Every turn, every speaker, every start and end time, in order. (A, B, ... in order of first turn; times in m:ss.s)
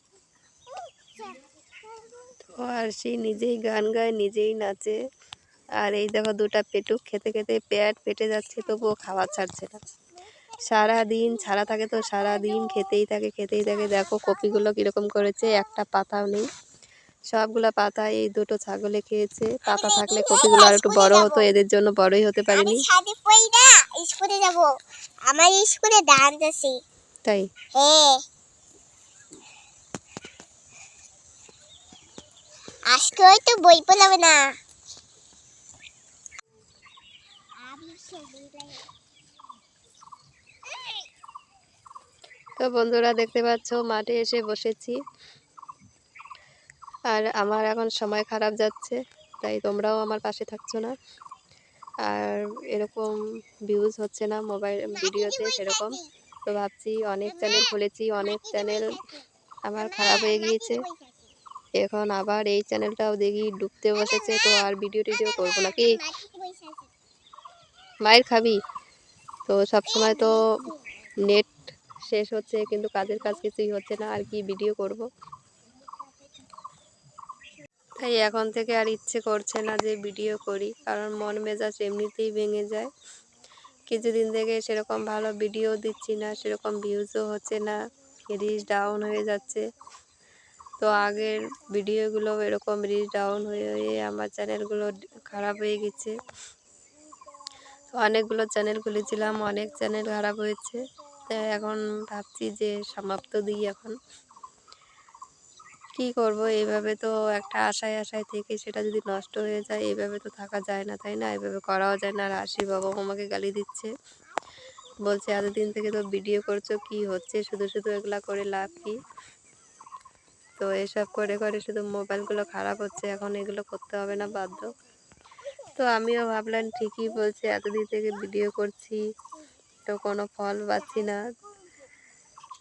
0:00.7-0:02.2 A
0:02.6-0:05.0 B
0:05.8-0:09.8 B
0:10.7-0:16.4 B
0:17.3-0:22.8 B
0:19.7-0:21.5 A
0:22.5-0:24.7 A
0:25.3-0:26.8 A
0:27.7-0:28.2 A
0:32.9-0:34.4 A
0:37.6-0:38.8 A
0:40.7-0:41.0 A
0:42.6-0:44.9 B
0:47.1-0:50.9 B
0:52.1-0:53.1 B
0:53.7-0:55.9 B
0:55.0-0:56.1 A
0:56.5-0:58.9 B
0:57.2-0:59.2 A
0:59.7-1:00.8 B
0:59.8-1:01.3 A
1:01.8-1:05.9 B
1:04.0-1:06.9 A
1:08.0-1:08.6 B
1:09.5-1:10.4 B
1:09.9-1:10.8 A
1:12.1-1:15.0 B
1:18.0-1:22.9 B
1:23.9-1:27.7 B
1:28.3-1:29.6 B
1:30.8-1:36.1 B
1:37.9-1:44.0 B
1:45.9-1:53.9 B
1:55.0-1:59.0 B
2:00.6-2:04.7 B
2:05.8-2:09.0 B
2:09.9-2:11.2 B